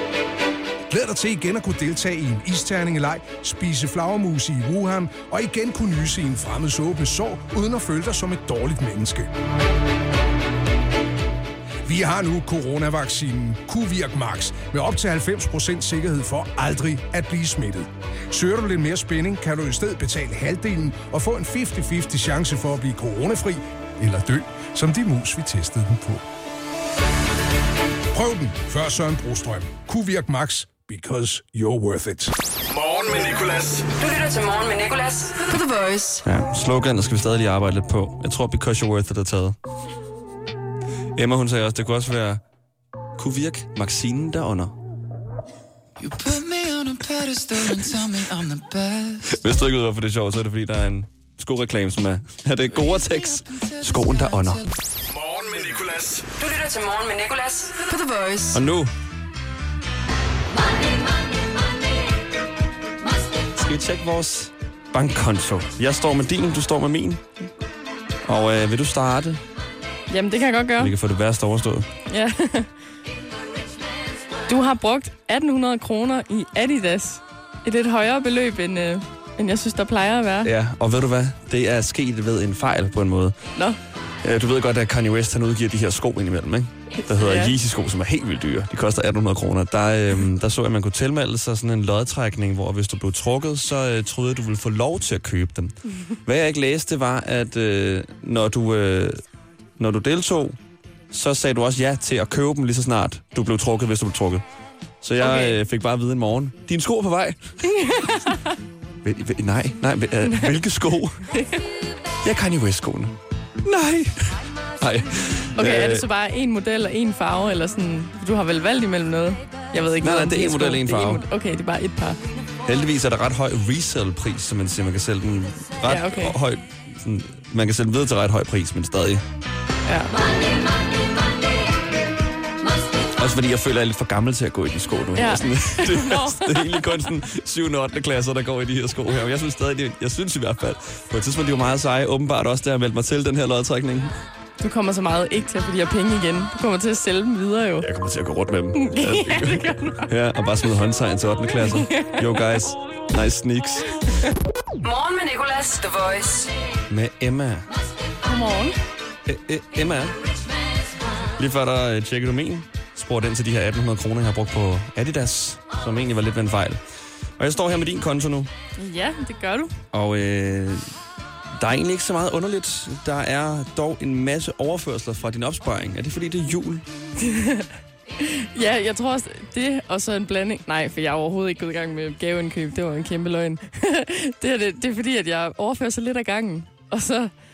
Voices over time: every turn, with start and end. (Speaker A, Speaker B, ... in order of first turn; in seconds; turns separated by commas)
Speaker A: 0.9-9.3, Speaker A: 11.8-26.2, Speaker A: 28.1-32.3, Speaker B: 32.7-33.9, Speaker C: 34.0-36.2, Speaker D: 36.2-39.6, Speaker D: 41.2-42.4, Speaker D: 43.2-44.8, Speaker E: 46.0-49.3, Speaker D: 49.3-54.6, Speaker E: 52.7-54.7, Speaker B: 55.1-56.3, Speaker C: 56.4-58.5, Speaker D: 58.5-58.9, Speaker D: 63.6-67.2, Speaker D: 68.3-69.4, Speaker F: 70.1-70.9, Speaker D: 70.8-71.9, Speaker F: 72.1-72.7, Speaker F: 74.5-80.5, Speaker D: 80.4-83.4, Speaker D: 84.2-99.2, Speaker F: 87.0-87.5, Speaker D: 99.8-100.6, Speaker D: 101.1-104.4, Speaker D: 105.0-107.6, Speaker F: 105.2-105.6, Speaker F: 107.7-108.6, Speaker D: 109.0-111.2, Speaker F: 110.3-110.6, Speaker F: 111.3-111.6, Speaker D: 112.2-116.0, Speaker F: 115.6-122.2, Speaker D: 120.0-121.2, Speaker D: 122.7-129.2, Speaker F: 125.8-126.4, Speaker F: 129.8-130.2, Speaker D: 133.2-144.1, Speaker F: 135.2-137.0, Speaker F: 144.6-147.9, Speaker D: 147.8-153.9, Speaker F: 148.8-150.1, Speaker F: 151.6-152.3, Speaker C: 154.8-156.5, Speaker D: 156.9-157.7, Speaker F: 158.2-158.8, Speaker D: 159.3-160.2, Speaker D: 161.4-166.8, Speaker D: 167.4-168.5, Speaker F: 168.8-169.8, Speaker D: 169.9-170.9, Speaker D: 171.6-176.8, Speaker F: 177.2-187.3